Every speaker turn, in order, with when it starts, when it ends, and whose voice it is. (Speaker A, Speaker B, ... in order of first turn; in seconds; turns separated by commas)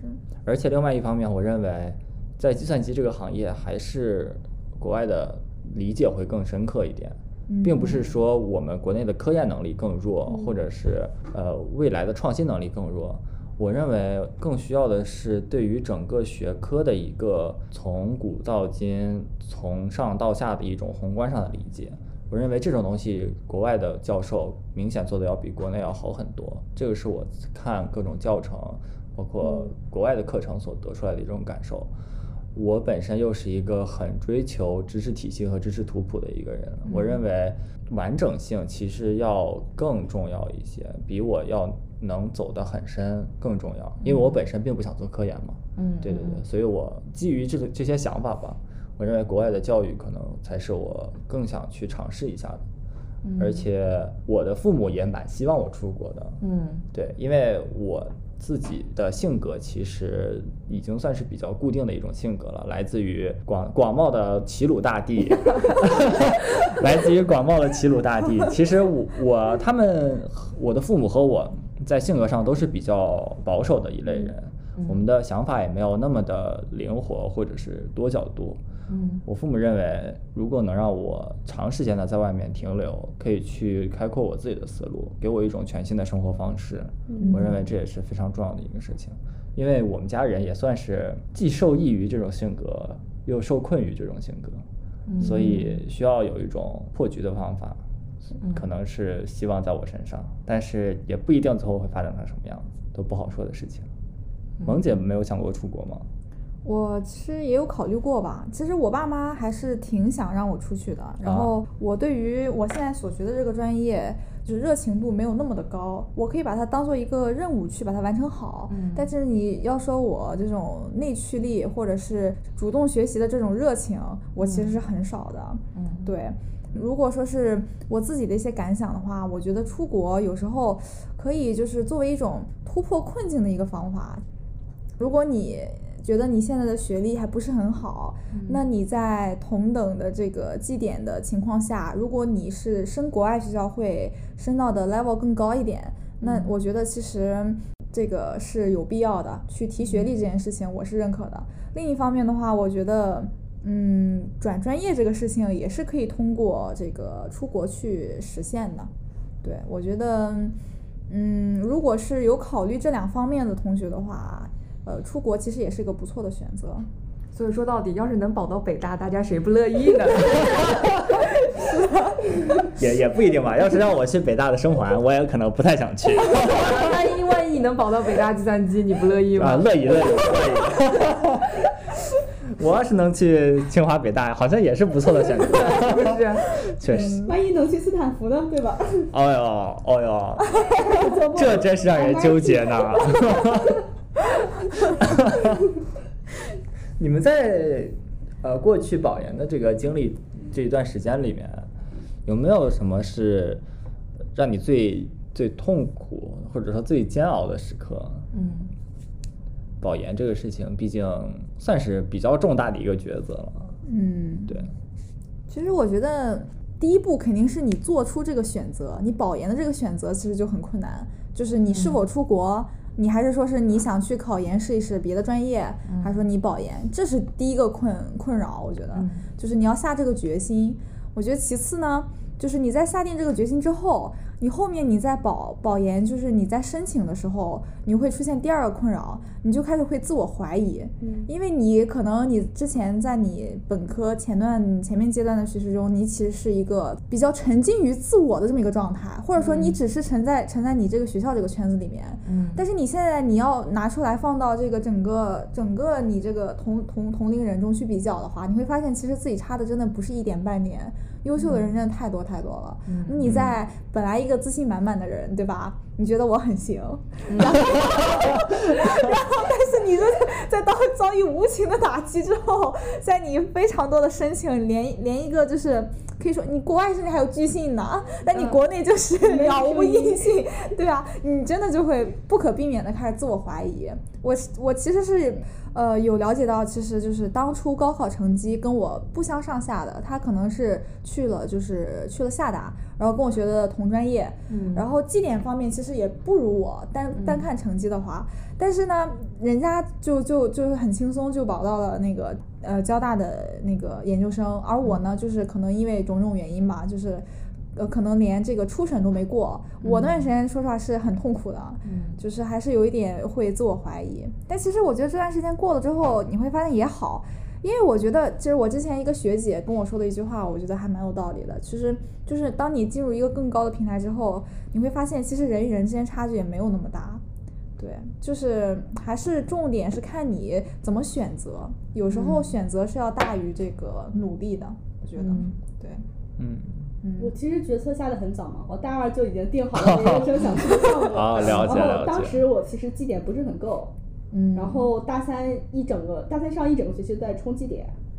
Speaker A: 0.4-31.9, Speaker B: 7.5-8.0, Speaker A: 32.5-52.6, Speaker C: 36.9-37.2, Speaker C: 44.0-44.4, Speaker C: 45.8-46.4, Speaker C: 53.2-53.6, Speaker A: 53.4-56.4, Speaker C: 56.4-56.9, Speaker A: 56.9-78.6, Speaker C: 78.9-79.2, Speaker A: 79.2-94.6, Speaker D: 87.1-87.4, Speaker C: 95.1-95.8, Speaker A: 95.2-97.8, Speaker A: 98.4-103.9, Speaker C: 104.6-105.0, Speaker A: 104.6-106.0, Speaker B: 106.6-134.2, Speaker A: 111.2-111.5, Speaker C: 118.7-119.1, Speaker C: 124.4-124.8, Speaker C: 125.7-126.1, Speaker B: 135.0-158.9, Speaker C: 138.3-138.6, Speaker C: 146.2-146.5, Speaker B: 159.4-160.6, Speaker B: 161.1-166.9, Speaker C: 167.3-172.1, Speaker A: 172.6-176.9, Speaker C: 176.4-179.7, Speaker A: 179.3-181.6, Speaker A: 182.5-187.3, Speaker C: 185.5-186.6, Speaker B: 186.9-187.3, Speaker D: 187.1-189.1, Speaker A: 189.1-193.8, Speaker D: 190.7-193.6, Speaker A: 194.9-195.6, Speaker A: 197.0-201.7, Speaker A: 202.2-203.6, Speaker A: 204.3-208.3, Speaker C: 208.3-208.7, Speaker A: 209.8-213.7, Speaker B: 213.8-214.6, Speaker B: 215.5-307.2, Speaker C: 221.7-222.0, Speaker C: 225.9-226.2, Speaker C: 228.9-229.2, Speaker D: 241.0-241.3, Speaker C: 249.3-249.8, Speaker C: 252.2-252.6, Speaker C: 261.4-261.6, Speaker C: 262.9-263.3, Speaker A: 263.2-263.5, Speaker C: 267.3-267.8, Speaker D: 279.2-280.4, Speaker C: 294.5-294.9, Speaker B: 307.8-327.2, Speaker C: 309.8-310.3, Speaker C: 311.8-312.2, Speaker B: 327.8-336.0, Speaker C: 332.1-332.5, Speaker C: 335.1-335.5, Speaker A: 336.4-336.8, Speaker D: 337.2-343.9, Speaker A: 339.7-342.4, Speaker B: 344.3-344.8, Speaker D: 344.5-347.9